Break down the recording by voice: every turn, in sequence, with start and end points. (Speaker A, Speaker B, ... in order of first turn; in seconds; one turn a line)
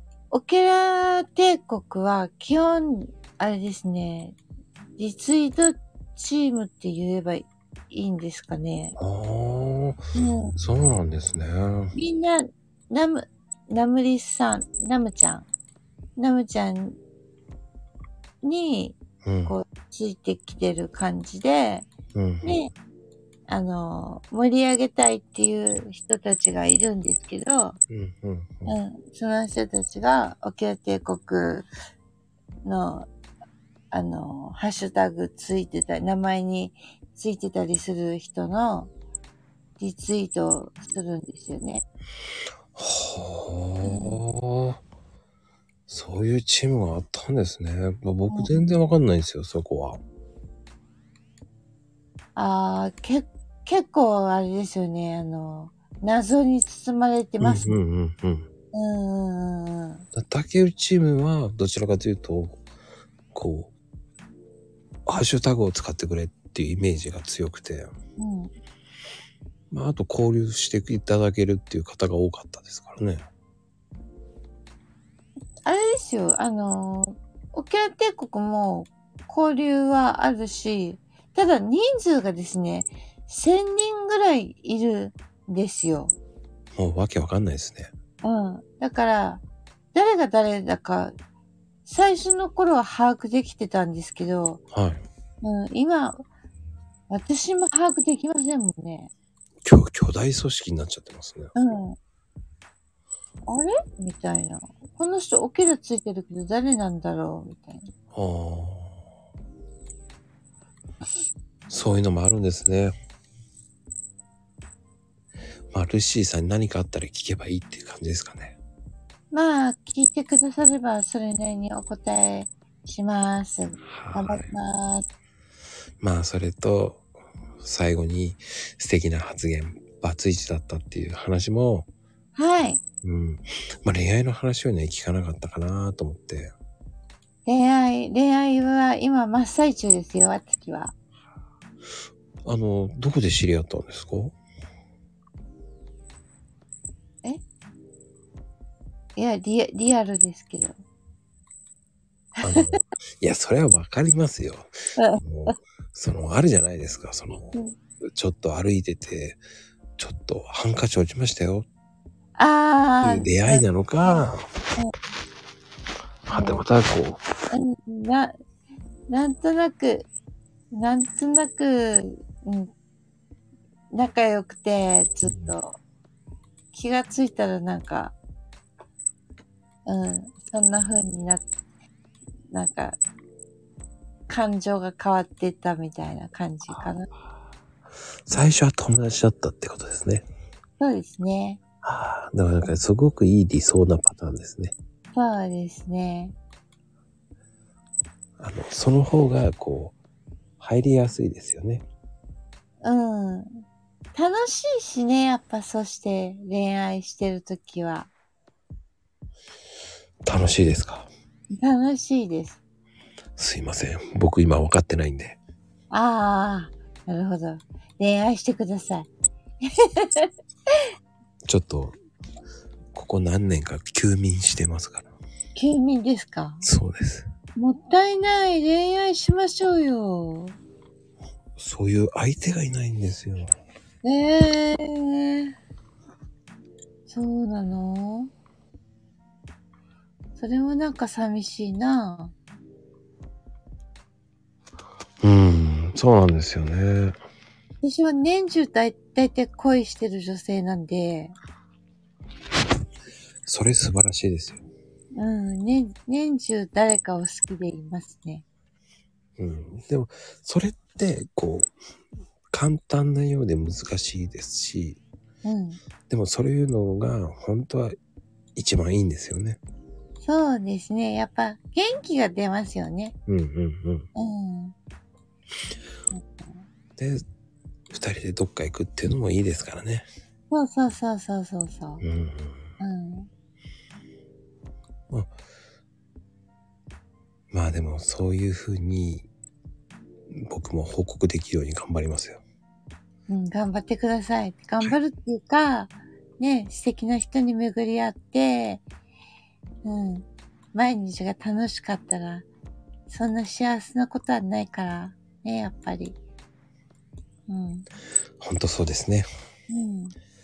Speaker A: 0.3-4.4
Speaker A: 5.0-8.9
Speaker B: 9.0-10.0
Speaker A: 10.1-10.5
Speaker B: 10.6-11.9
Speaker A: 11.9-15.5
Speaker A: 16.1-17.0
Speaker A: 18.4-21.9
Speaker B: 19.2-19.5
Speaker B: 22.1-22.6
Speaker A: 22.4-22.7
Speaker A: 23.5-27.8
Speaker B: 27.9-28.8
Speaker A: 28.6-31.7
Speaker A: 32.6-33.1
Speaker A: 33.9-38.9
Speaker A: 39.8-41.8
Speaker B: 42.7-44.8
Speaker A: 43.8-44.2
Speaker B: 45.9-50.0
Speaker A: 48.3-48.8
Speaker A: 52.4-57.8
Speaker B: 57.4-58.5
Speaker A: 58.7-60.0
Speaker B: 60.1-62.6
Speaker B: 63.3-63.7
Speaker B: 65.1-67.9
Speaker A: 68.2-68.5
Speaker B: 69.7-73.2
Speaker A: 75.6-86.1
Speaker B: 86.8-87.9
Speaker A: 88.2-89.4
Speaker A: 89.9-91.1
Speaker A: 91.8-94.6
Speaker B: 94.7-95.0
Speaker A: 95.4-96.2
Speaker A: 97.1-99.1
Speaker B: 99.6-101.5
Speaker A: 101.5-102.0
Speaker A: 103.5-107.9
Speaker B: 108.1-109.0
Speaker B: 111.7-112.9
Speaker B: 115.7-118.6
Speaker A: 119.3-125.0
Speaker B: 124.0-124.5
Speaker B: 126.0-127.0
Speaker B: 127.6-131.9
Speaker A: 132.3-132.8
Speaker B: 133.0-136.5
Speaker A: 137.4-140.9
Speaker B: 142.4-144.3
Speaker A: 149.2-150.8
Speaker A: 152.4-152.7
Speaker B: 152.4-157.5
Speaker A: 155.0-155.5
Speaker B: 158.1-159.4
Speaker B: 160.0-161.7
Speaker A: 162.3-164.2
Speaker B: 163.0-164.4
Speaker B: 166.2-167.2
Speaker A: 166.3-166.6
Speaker A: 167.5-168.3
Speaker A: 169.1-170.1
Speaker A: 170.7-172.7
Speaker A: 173.9-175.8
Speaker B: 175.2-175.5
Speaker A: 176.7-178.1
Speaker A: 179.8-181.5
Speaker A: 182.5-183.0
Speaker A: 184.3-187.1
Speaker B: 188.2-190.2
Speaker A: 190.8-191.6
Speaker B: 191.8-194.7
Speaker A: 195.1-196.3
Speaker B: 198.4-199.9
Speaker B: 200.6-201.8
Speaker A: 202.8-203.6
Speaker A: 204.1-208.1
Speaker B: 210.2-211.1
Speaker A: 211.6-212.6
Speaker B: 213.4-215.4
Speaker A: 215.9-219.1
Speaker A: 219.8-220.3
Speaker B: 221.4-221.9
Speaker B: 222.9-225.1
Speaker A: 225.5-226.7
Speaker B: 226.6-227.3
Speaker A: 227.6-230.5
Speaker B: 231.6-233.5
Speaker A: 234.0-235.5
Speaker A: 237.1-238.3
Speaker A: 240.4-242.3
Speaker B: 245.2-247.2
Speaker A: 247.8-251.3
Speaker B: 253.4-254.6
Speaker A: 255.1-258.4
Speaker B: 259.4-261.7
Speaker B: 262.5-265.0
Speaker A: 265.4-265.8
Speaker B: 266.1-267.9
Speaker B: 268.6-269.6
Speaker A: 270.2-273.1
Speaker B: 273.3-274.1
Speaker A: 274.1-274.7
Speaker A: 276.1-276.6
Speaker B: 277.0-277.2
Speaker B: 277.9-280.1
Speaker A: 280.5-282.0
Speaker B: 282.0-282.6
Speaker A: 282.8-283.3
Speaker B: 287.5-289.3
Speaker B: 290.3-292.4
Speaker A: 293.3-298.8
Speaker A: 299.8-302.4
Speaker A: 303.1-306.2
Speaker A: 307.5-307.9
Speaker B: 308.4-309.3
Speaker A: 309.7-310.1